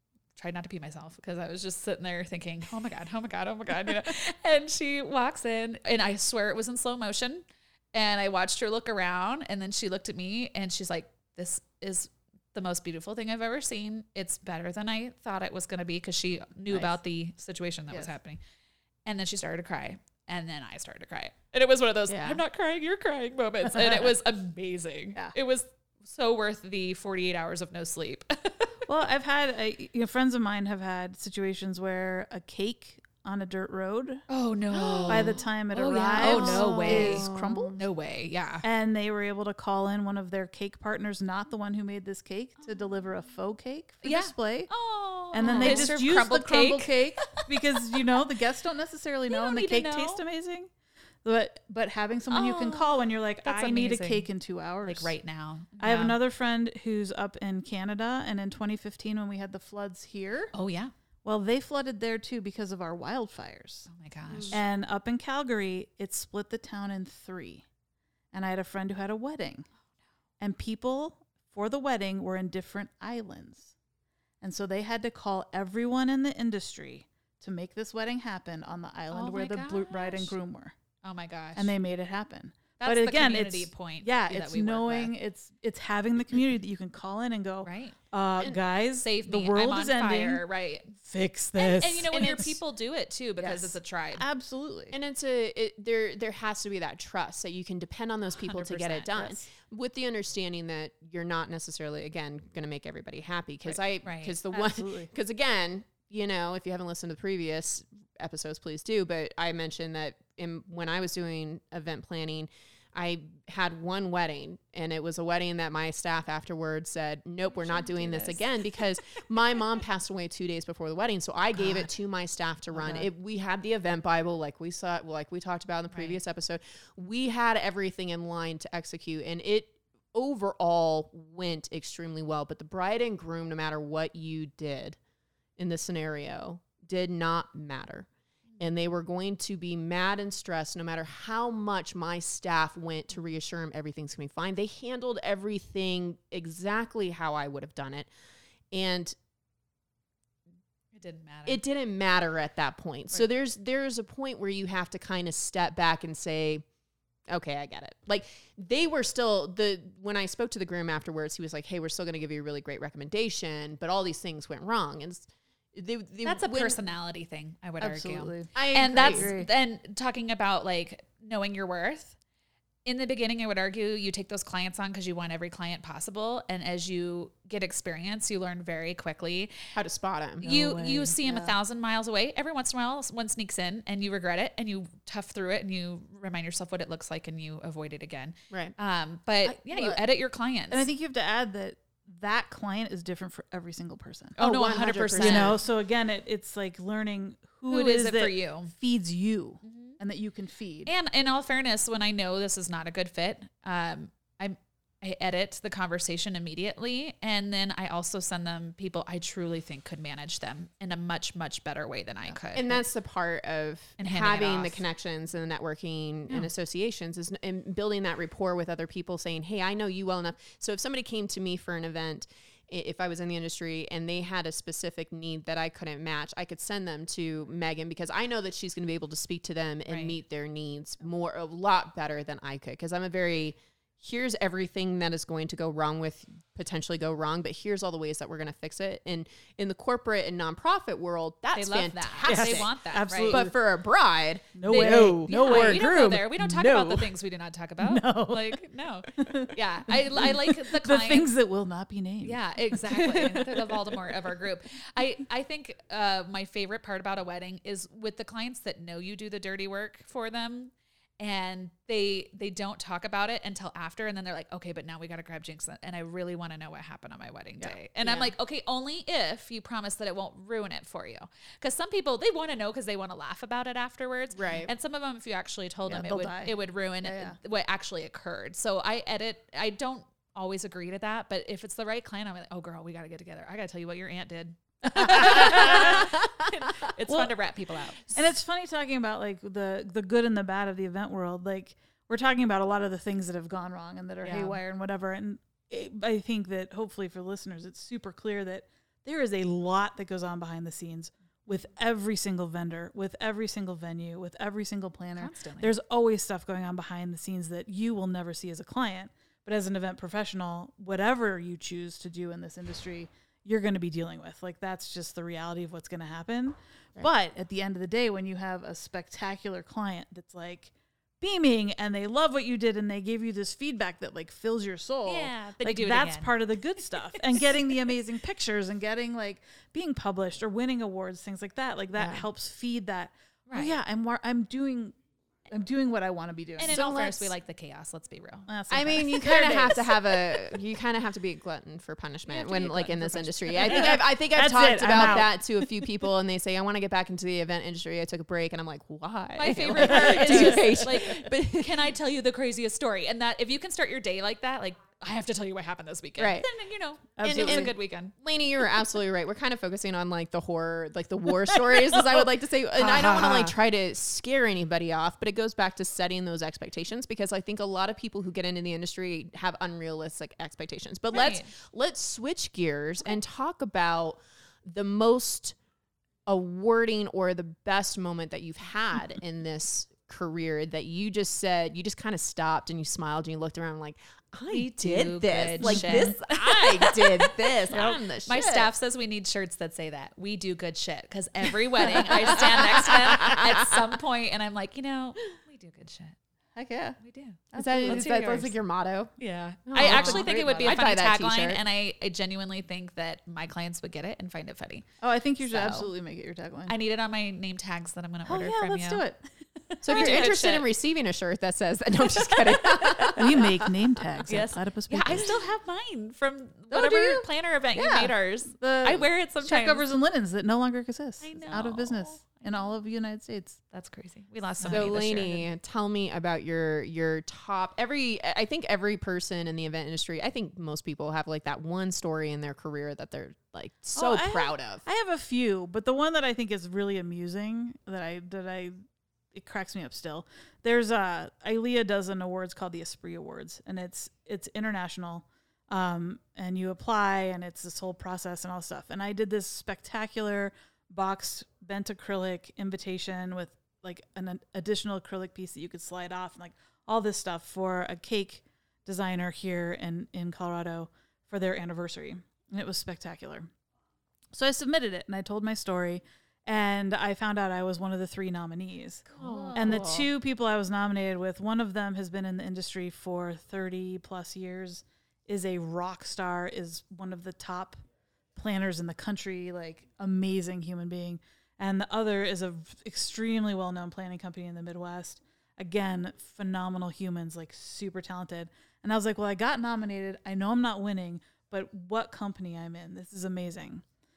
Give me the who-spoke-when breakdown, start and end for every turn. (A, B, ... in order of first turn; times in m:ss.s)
0:00.4-0:18.4 A
0:19.1-0:28.8 A
0:22.1-0:22.4 B
0:28.9-0:34.2 C
0:34.3-0:38.6 A
0:34.7-0:35.3 B
0:35.0-0:37.8 C
0:36.2-0:37.8 B
0:38.6-0:44.7 C
0:44.0-0:48.0 A
0:45.3-0:50.7 C
0:45.4-0:45.9 B
0:49.3-0:50.2 A
0:51.2-0:55.1 C
0:52.3-0:54.3 A
0:54.8-0:56.2 A
0:55.8-1:00.5 C
1:00.5-1:00.9 A
1:01.2-1:03.9 C
1:03.9-1:04.6 A
1:04.3-1:04.6 B
1:04.5-1:07.6 C
1:08.3-1:09.7 C
1:10.4-1:13.7 C
1:14.4-1:20.8 C
1:19.1-1:20.3 A
1:21.0-1:21.7 A
1:21.6-1:30.4 C
1:22.8-1:25.1 A
1:27.6-1:28.0 A
1:29.0-1:30.9 A
1:31.0-1:32.6 C
1:31.6-1:34.2 A
1:33.4-1:33.7 B
1:34.2-1:35.0 C
1:34.9-2:15.0 B
1:38.4-1:39.4 A
1:43.6-1:44.4 A
1:44.5-1:45.1 C
1:57.5-1:58.8 A
2:02.7-2:03.1 C
2:05.9-2:06.2 A
2:15.6-2:18.1 B
2:18.6-2:28.1 B
2:28.7-2:29.2 B
2:30.9-2:31.6 A
2:31.5-2:36.6 B
2:37.3-2:46.8 B
2:46.2-2:52.2 A
2:47.8-2:49.5 C
2:48.5-2:49.3 B
2:52.8-2:59.6 A
2:59.7-3:00.5 B
3:00.4-3:01.5 C
3:00.4-3:10.9 A
3:09.4-3:10.0 B
3:10.7-3:14.4 C
3:14.4-3:15.6 A
3:14.4-3:15.6 B
3:15.2-3:20.9 C
3:17.7-3:18.7 A
3:19.6-3:20.0 A
3:20.9-3:32.8 A
3:32.5-4:02.7 B
3:34.0-3:34.8 A
3:49.9-3:50.2 A
4:01.5-4:03.4 A
4:02.3-4:03.6 C
4:03.2-4:05.9 B
4:04.6-4:07.1 C
4:04.7-4:11.3 A
4:07.8-4:08.6 C
4:09.2-4:13.5 C
4:12.2-4:48.3 A
4:12.9-4:13.4 B
4:27.6-4:28.3 B
4:34.3-4:34.7 B
4:35.9-4:37.4 C
4:44.8-4:46.2 C
4:47.1-4:47.3 C
4:48.1-5:35.0 C
4:54.2-4:54.6 A
5:05.2-5:05.7 A
5:25.0-5:26.3 A
5:27.2-5:27.4 A
5:32.0-5:32.2 B
5:33.5-5:33.8 A
5:35.5-5:37.1 C
5:36.6-5:39.1 A
5:36.7-5:37.3 B
5:38.5-5:40.6 C
5:38.7-5:51.8 B
5:42.3-5:44.0 A
5:43.6-5:45.3 C
5:45.0-5:45.2 A
5:49.4-5:58.1 A
5:49.7-5:51.1 C
5:56.2-5:56.5 B
5:57.2-5:57.7 C
5:57.2-6:15.6 B
6:01.7-6:03.6 C
6:11.1-6:11.5 A
6:16.3-6:28.7 B
6:24.5-6:36.2 A
6:25.6-6:26.2 C
6:27.7-6:28.6 C
6:31.8-6:33.7 B
6:36.6-6:37.0 C
6:37.0-6:38.5 A
6:37.5-6:38.4 C
6:37.6-6:39.1 B
6:39.2-6:44.8 A
6:39.7-6:41.6 B
6:39.8-6:40.8 C
6:45.0-6:46.7 C
6:45.5-6:45.9 A
6:46.7-6:49.1 A
6:48.2-6:49.2 C
6:49.7-6:50.7 A
6:49.8-6:53.7 B
6:49.9-6:50.3 C
6:52.2-6:53.4 A
6:53.2-6:55.5 C
6:54.2-6:59.8 A
6:56.7-7:03.6 C
7:01.2-7:02.7 A
7:03.7-7:05.5 A
7:04.6-7:04.9 C
7:04.6-7:14.8 B
7:14.0-7:18.8 C
7:19.3-7:43.5 C
7:44.3-7:57.8 C
7:49.1-7:50.1 B
7:49.2-7:49.9 A
7:58.4-8:13.8 C